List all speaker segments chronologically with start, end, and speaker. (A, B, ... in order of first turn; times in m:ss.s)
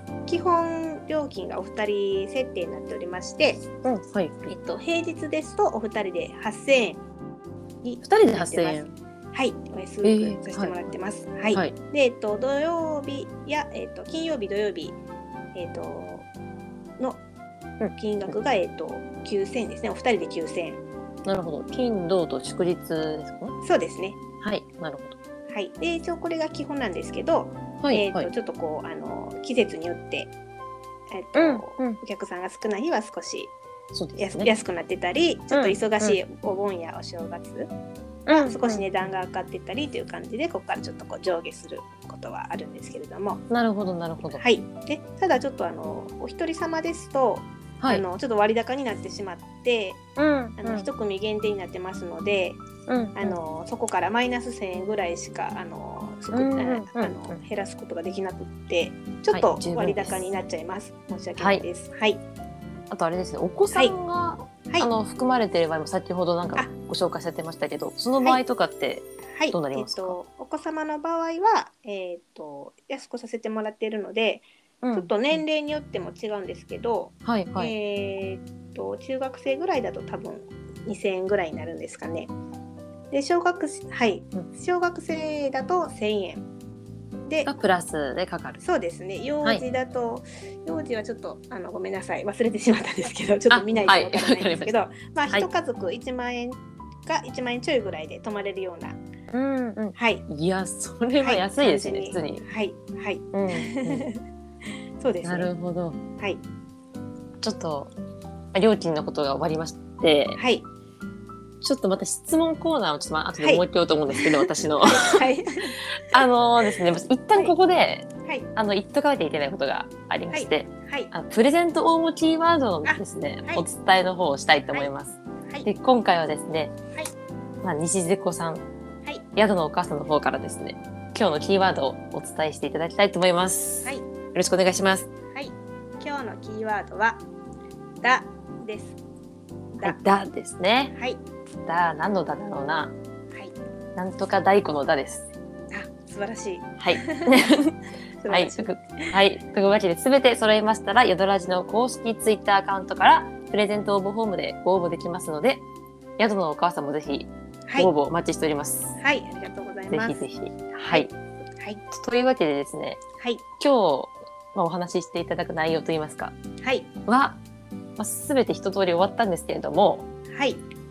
0:00.3-0:03.6 A
0:03.8-0:04.5 B
0:04.5-0:07.0 A
0:07.8-0:08.8 A
0:08.0-0:08.9 B
0:09.3-0:15.0 A
0:10.0-0:10.9 B
0:15.5-0:16.3 A
0:17.8-0:18.3 B
0:18.0-0:20.8 A
0:21.2-0:23.5 B
0:23.6-0:24.2 A
0:24.4-0:25.2 B
0:25.5-0:30.3 A
0:27.8-0:28.3 B
0:31.1-0:33.5 A
0:31.3-0:32.0 B
0:33.9-0:34.5 B
0:34.2-0:37.7 A
0:35.5-0:36.2 B
0:38.3-0:38.9 B
0:38.3-0:43.4 A
0:43.5-0:44.4 B
0:44.2-0:50.0 A
0:50.2-0:50.9 B
0:50.6-0:52.6 A
0:52.9-0:53.4 B
0:53.1-1:02.2 A
0:56.3-0:57.4 B
0:59.3-1:00.2 B
1:01.4-1:01.6 B
1:02.9-1:10.2 B
1:09.3-1:22.3 A
1:14.8-1:15.4 B
1:17.2-1:17.7 B
1:23.1-1:26.4 A
1:27.4-1:28.6 B
1:28.6-1:39.0 A
1:33.5-1:34.7 B
1:39.3-1:42.4 B
1:40.0-1:40.2 A
1:41.2-1:44.2 A
1:43.3-1:44.1 B
1:45.0-1:45.5 A
1:45.2-1:46.0 B
1:47.4-1:47.9 B
1:48.5-1:50.4 B
1:50.4-1:50.6 A
1:51.6-1:55.2 B
1:53.4-1:56.2 A
1:56.0-2:06.7 B
2:00.3-2:01.1 A
2:02.8-2:03.6 A
2:07.6-2:08.6 B
2:09.4-2:15.1 B
2:15.3-2:17.2 A
2:18.0-2:19.0 A
2:19.7-2:20.0 A
2:19.8-2:20.9 B
2:20.9-2:21.2 A
2:21.6-2:22.9 B
2:24.0-2:25.3 B
2:25.7-2:27.5 A
2:26.8-2:27.8 B
2:28.2-2:29.1 A
2:28.3-2:35.6 B
2:36.2-2:38.9 B
2:39.0-2:40.2 A
2:39.9-2:41.1 B
2:40.9-2:41.8 A
2:41.9-2:43.0 B
2:43.2-2:43.4 A
2:43.6-2:46.3 B
2:46.6-2:46.9 A
2:47.0-2:47.4 B
2:48.0-2:50.1 B
2:50.3-2:50.6 A